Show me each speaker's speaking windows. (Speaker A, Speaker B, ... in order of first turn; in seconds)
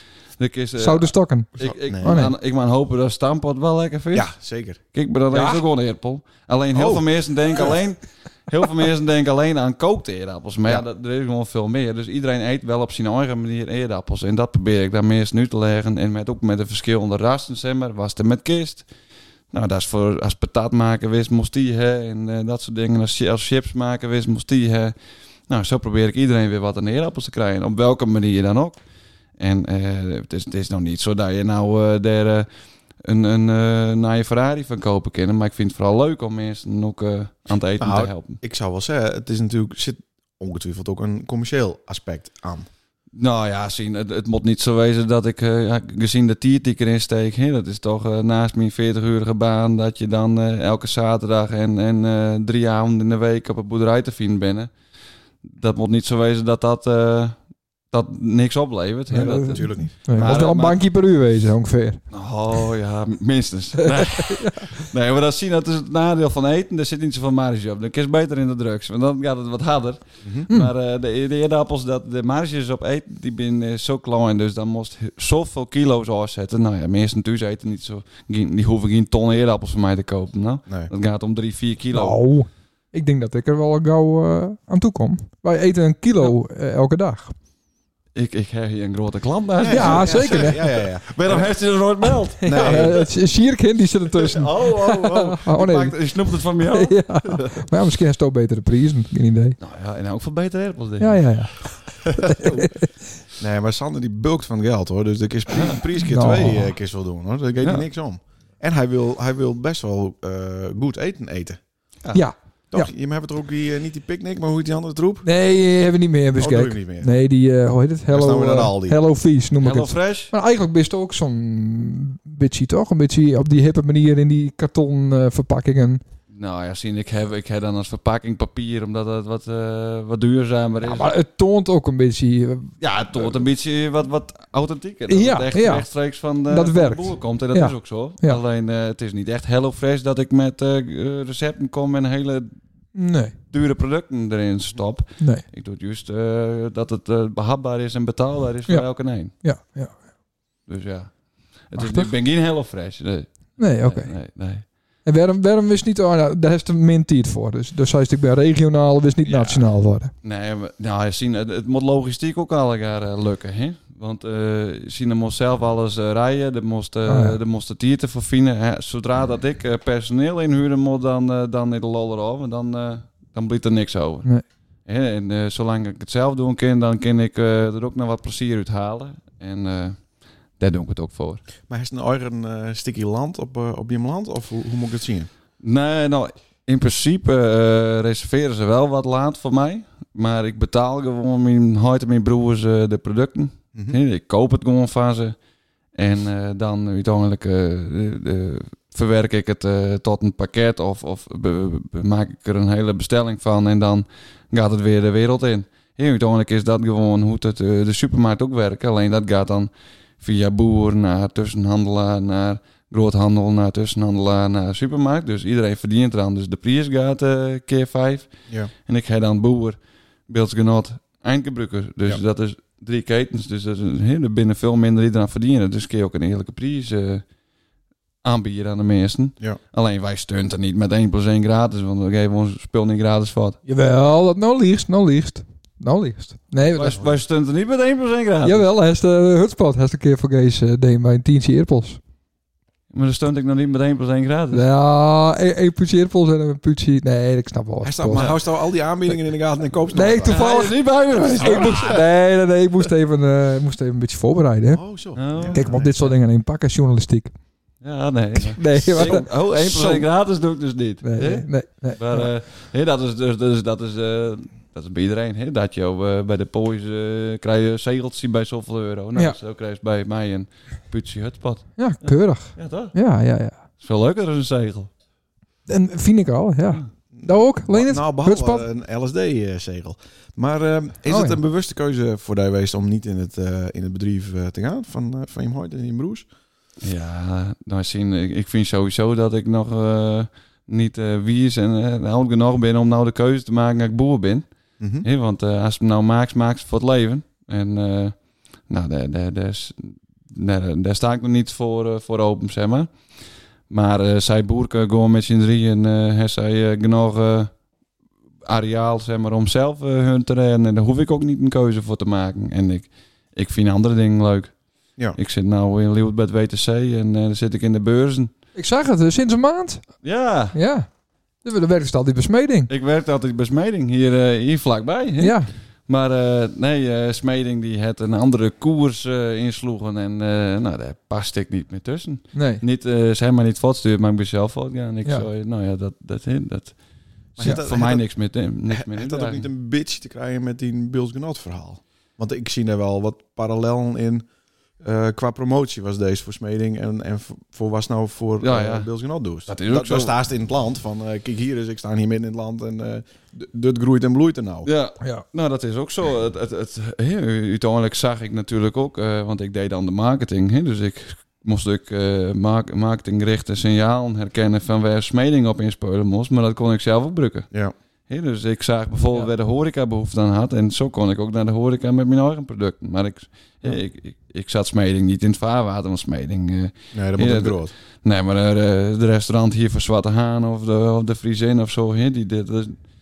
Speaker A: 0.4-4.3, 4.9-18.9, 19.5-24.9, 25.5-28.8, 29.4-32.5, 33.0-38.4, 43.1-54.7, 55.4-57.4, 57.9-60.8, 62.1-82.2, 88.1-93.1, 94.1-97.7, 99.6-102.7, 119.6-120.3, 126.3-131.1, 132.8-142.5, 143.5-149.3, 150.7-151.1, 151.7-154.6, 159.2-159.7, 160.2-174.3, 174.8-180.0, 180.6-181.4, 185.6-195.3, 195.9-209.7, 210.2-218.3, 218.8-219.8, 220.3-227.2, 228.2-233.6, 236.7-238.6, 242.9-244.6, 250.2-251.9, 255.2-255.7, 257.8-272.9, 273.8-274.9, 286.8-294.4, 295.0-298.1, 298.7-302.9, 303.7-307.5, 308.4-314.5, 315.1-318.3, 320.0-320.6, 322.7-336.8, 337.4-339.5, 348.4-348.9, 349.5-350.1, 354.6-367.5, 368.1-382.8
Speaker B: 0.8-2.3, 5.3-5.6, 59.1-62.0, 63.9-64.6, 81.9-87.3, 89.7-90.6, 92.4-96.0, 96.6-99.6, 101.0-102.8, 106.0-106.7, 112.1-112.9, 115.2-126.0, 130.8-132.7, 135.1-135.8, 136.5-138.4, 142.9-143.3, 148.7-149.9, 151.8-152.1, 153.6-154.1, 155.0-160.1, 167.1-167.4, 233.7-237.1, 238.4-242.0, 244.5-248.2, 249.9-254.8, 255.5-257.3, 258.5-260.1, 261.0-262.3, 271.8-273.6, 275.7-278.6, 281.1-281.4, 318.5-319.8, 320.5-320.9, 321.4-322.7, 325.2-325.5, 332.3-332.6
Speaker C: 1.6-2.2, 4.1-4.8, 6.7-7.8, 37.8-42.7, 59.1-60.4, 89.6-91.5, 92.4-93.0, 103.4-111.6, 112.7-115.3, 116.3-117.1, 118.1-119.0, 181.7-185.3, 247.8-250.4, 251.3-252.0, 254.7-256.0, 258.8-259.1, 277.1-286.3, 294.8-295.1, 337.4-338.1, 338.7-344.2, 344.8-354.7, 376.9-377.7